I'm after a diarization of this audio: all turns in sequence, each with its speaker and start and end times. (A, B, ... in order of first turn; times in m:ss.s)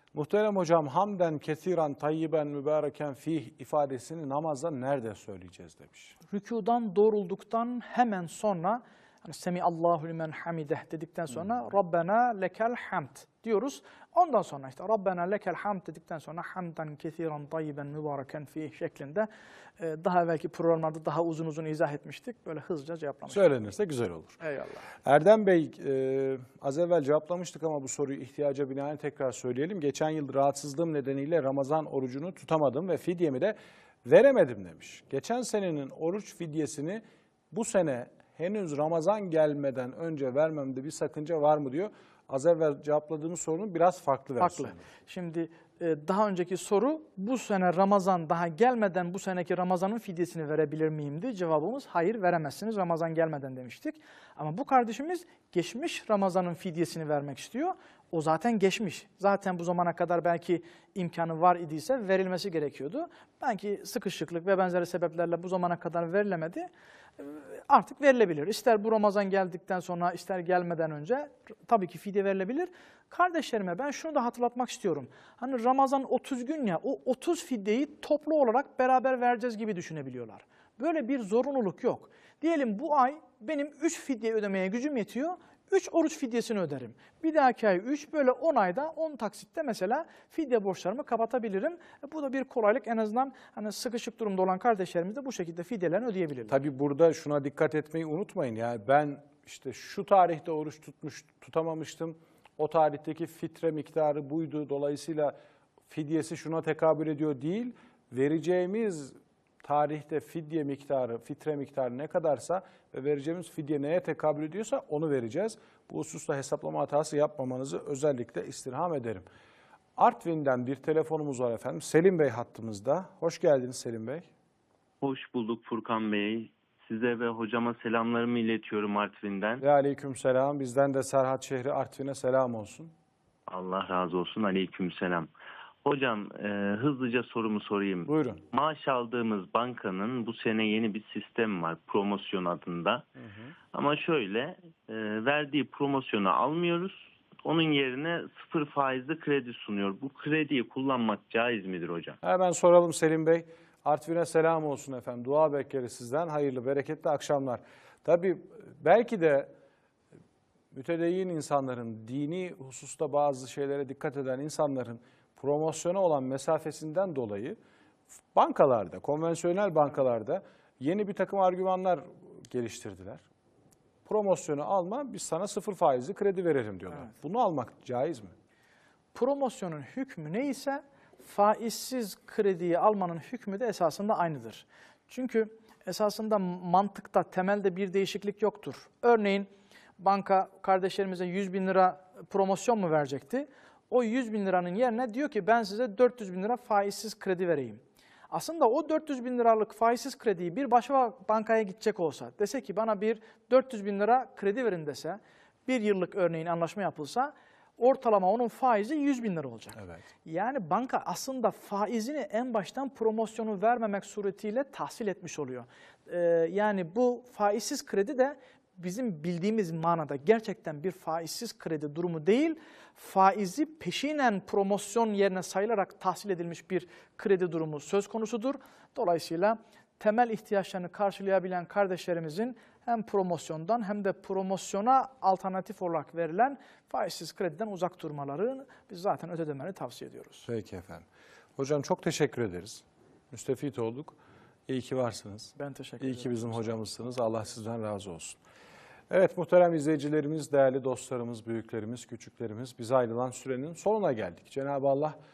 0:00.1-0:06.2 A
0:06.3-0:23.5 B
0:23.3-0:24.4 A
0:24.4-0:24.9 B
0:25.0-0:44.8 A
0:44.4-1:36.6 B
1:36.5-1:45.4 A
1:45.9-1:59.3 A
2:00.0-2:04.3 A
2:05.0-2:09.6 C
2:09.6-2:12.9 A
2:13.5-2:15.3 C
2:15.8-2:23.1 C
2:18.0-2:18.4 A
2:23.2-2:23.5 A
2:23.7-2:32.2 C
2:32.2-2:39.5 A
2:40.7-2:47.6 A
2:48.3-2:53.2 A
2:54.0-2:58.4 A
2:59.2-4:00.5 B
3:29.8-3:30.0 A
4:00.5-4:01.0 A
4:01.6-4:04.2 A
4:04.7-4:08.4 A
4:05.6-4:06.8 B
4:09.1-4:15.2 A